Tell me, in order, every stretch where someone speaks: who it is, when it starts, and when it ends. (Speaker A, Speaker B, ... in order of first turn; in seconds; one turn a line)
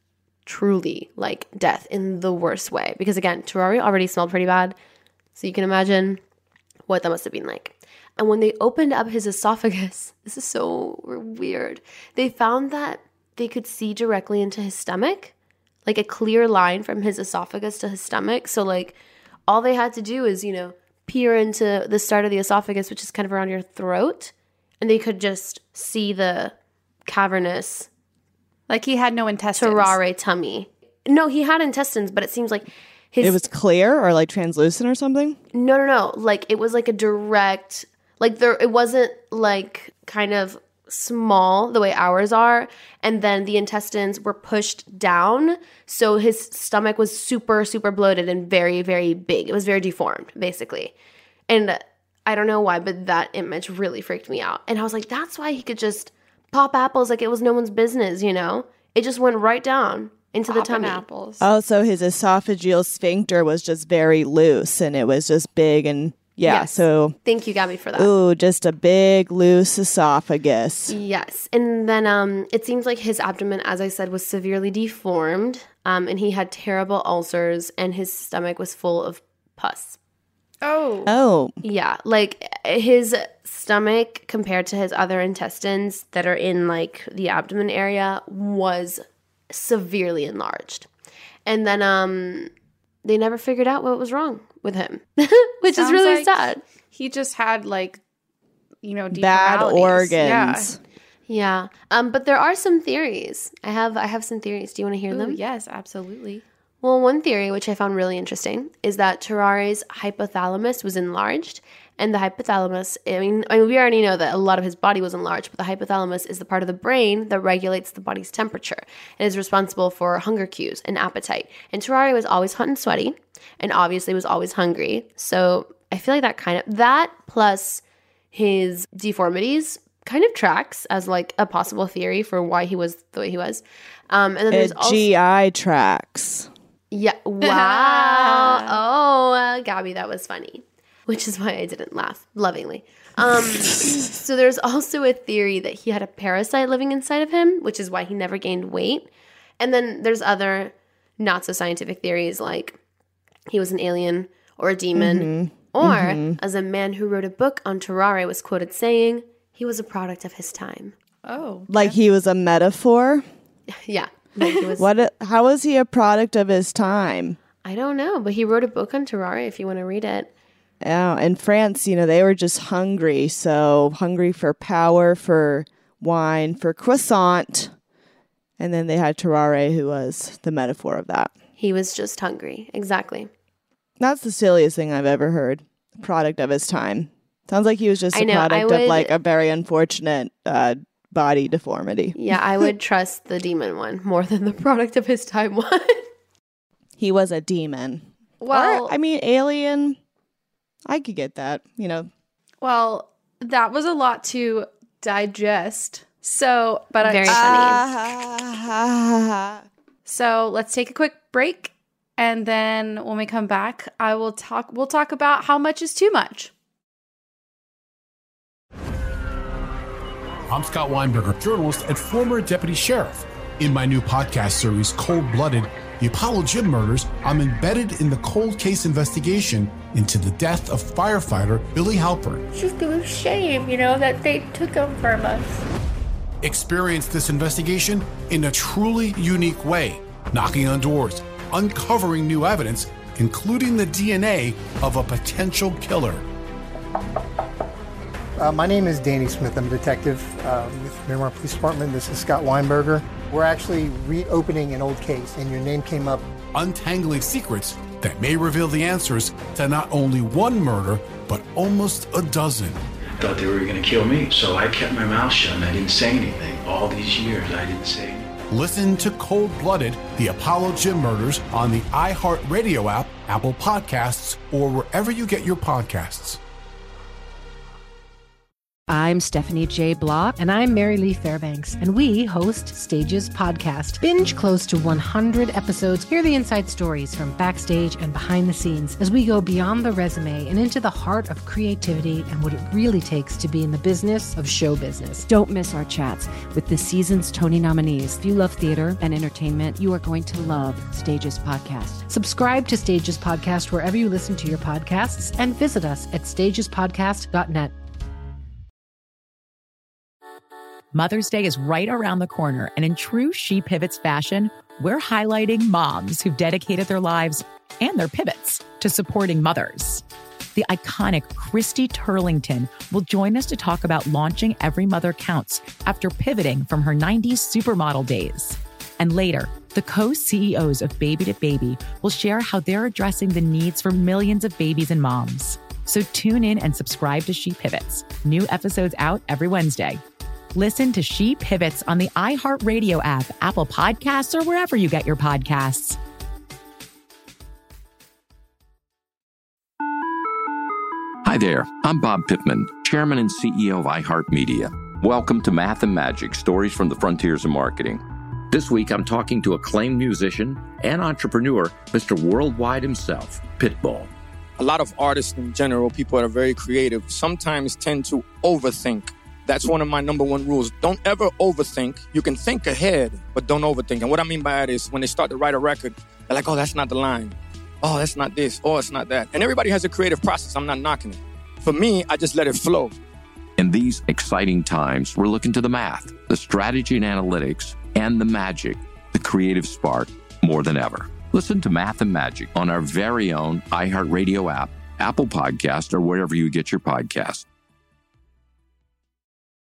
Speaker A: 0.5-4.8
Speaker A: 5.3-6.2
Speaker A: 6.9-15.3
Speaker A: 15.8-18.9
Speaker A: 19.5-26.5
Speaker A: 27.1-27.9
Speaker B: 28.7-30.0
Speaker A: 29.6-33.4
Speaker C: 33.2-35.4
Speaker A: 35.5-50.9
Speaker A: 51.5-61.0
Speaker B: 60.5-61.5
Speaker C: 61.4-67.2
Speaker A: 66.5-68.1
Speaker C: 68.0-71.0
Speaker A: 70.9-80.0
Speaker B: 80.6-81.1
Speaker C: 81.0-81.5
Speaker A: 81.6-90.9
Speaker A: 91.5-92.5
Speaker A: 93.0-96.6
Speaker B: 95.7-98.0
Speaker B: 98.8-100.7
Speaker C: 99.1-100.8
Speaker A: 101.3-105.4
Speaker B: 105.1-106.4
Speaker A: 106.8-127.8
Speaker A: 128.3-135.1
Speaker C: 134.5-136.5
Speaker A: 136.9-152.8
Speaker B: 137.4-138.8
Speaker A: 153.5-160.9
Speaker C: 154.9-156.4
Speaker B: 161.2-161.9
Speaker C: 161.7-163.2
Speaker A: 163.8-164.9
Speaker C: 164.8-167.4
Speaker A: 167.6-170.3
Speaker C: 170.8-177.7
Speaker C: 178.6-181.3
Speaker A: 181.6-183.3
Speaker C: 184.0-192.7
Speaker A: 188.1-189.1
Speaker A: 192.1-196.0
Speaker C: 197.0-200.0
Speaker B: 198.4-198.9
Speaker C: 200.9-202.1
Speaker B: 202.6-207.7
Speaker A: 207.0-207.8
Speaker C: 207.3-209.7
Speaker B: 210.1-216.5
Speaker D: 220.5-232.4
Speaker E: 232.5-235.6
Speaker D: 236.4-246.2
Speaker F: 248.4-256.3
Speaker D: 256.5-262.8
Speaker G: 263.2-268.3
Speaker D: 268.5-276.4
Speaker H: 278.9-280.4
Speaker I: 280.4-295.2
Speaker H: 295.2-302.1
Speaker I: 302.1-307.7
Speaker J: 310.9-320.0
Speaker J: 320.5-340.0
Speaker J: 340.5-346.0
Speaker K: 351.2-364.1
Speaker L: 364.6-382.9
Speaker K: 383.6-397.4